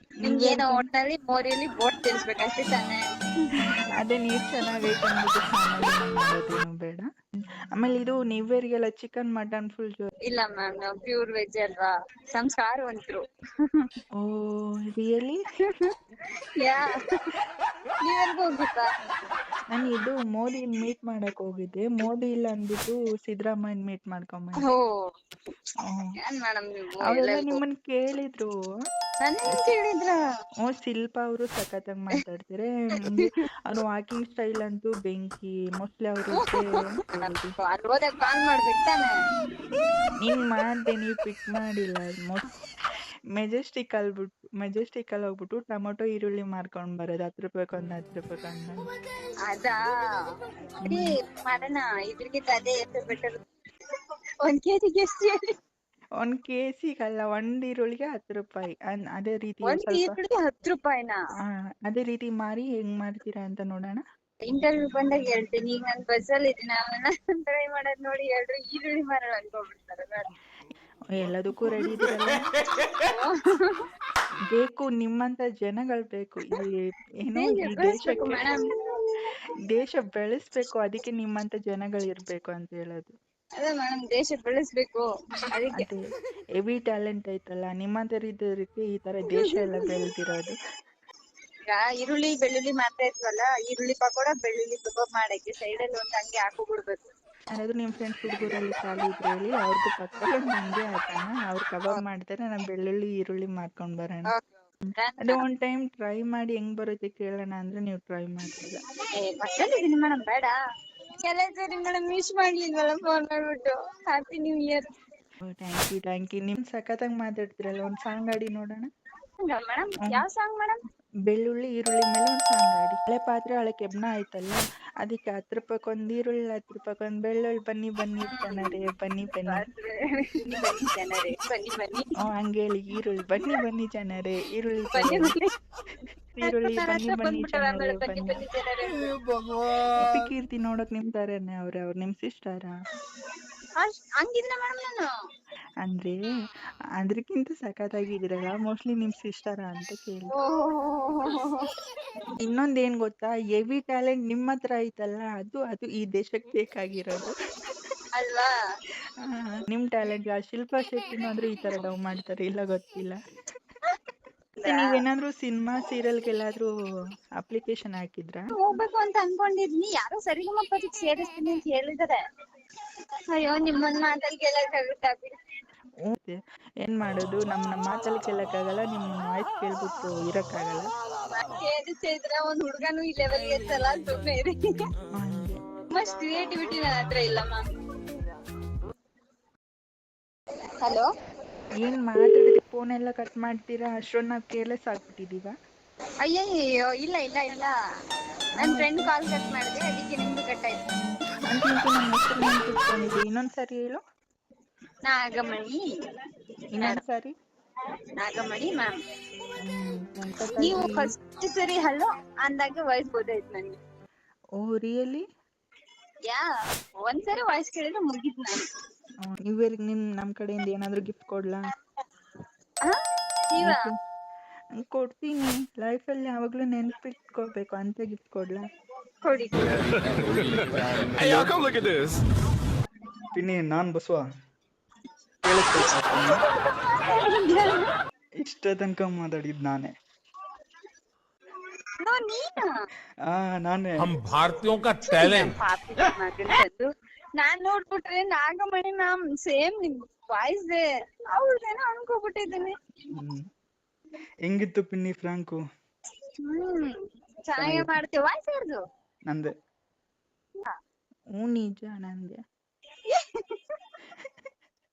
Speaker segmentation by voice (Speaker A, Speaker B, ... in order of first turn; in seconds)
Speaker A: 0.2-0.9, 4.0-7.1, 7.7-10.1, 14.2-15.4, 19.7-24.7, 25.8-26.1, 27.0-28.6, 30.6-37.5, 40.2-42.5, 43.3-48.9, 56.2-60.2, 61.9-64.0, 71.2-72.5, 74.5-78.5, 79.7-83.1, 85.7-86.0, 86.6-90.5, 97.5-104.3, 105.2-108.8, 115.5-118.9, 121.3-129.6, 132.2-135.3, 136.3-138.4, 140.0-142.7, 145.8-146.3, 147.0-150.3, 152.4-157.3, 159.2-163.2, 164.6-166.7, 167.4-168.4, 176.1-180.9, 185.1-185.6, 191.8-195.5, 198.6-199.1, 201.0-204.0, 206.7-207.3, 209.6-211.1, 214.6-215.2, 219.2-221.6, 223.6-223.9, 224.8-228.7, 233.3-234.2, 235.4-236.4, 238.4-239.9, 243.3-244.0, 253.1-253.4, 254.4-255.6, 257.6-257.9, 261.4-262.4
Speaker B: 0.2-3.0, 10.3-13.8, 16.6-17.2, 18.0-18.9, 24.6-25.1, 26.2-27.6, 29.2-30.2, 33.0-33.4, 36.4-39.1, 49.5-49.8, 50.9-53.4, 54.4-55.5, 59.6-61.2, 64.4-70.3, 73.0-73.8, 77.3-78.8, 83.6-85.9, 89.4-89.9, 91.7-97.0, 105.0-105.4, 109.2-110.6, 111.2-114.9, 119.5-120.8, 128.2-128.8, 129.4-132.1, 134.9-135.5, 136.4-139.2, 143.8-145.1, 150.3-151.7, 158.1-158.5, 164.6-165.0, 168.6-172.2, 173.3-175.4, 181.3-184.6, 185.9-187.7, 190.8-191.1, 196.2-197.7, 198.6-200.8, 205.0-205.9, 208.2-209.0, 210.6-213.8, 217.0-218.7, 223.5-223.9, 229.2-229.9, 236.9-237.9, 242.0-242.9, 245.1-252.7, 256.4-258.8, 263.1-263.8
Speaker C: 231.1-231.9, 244.0-245.5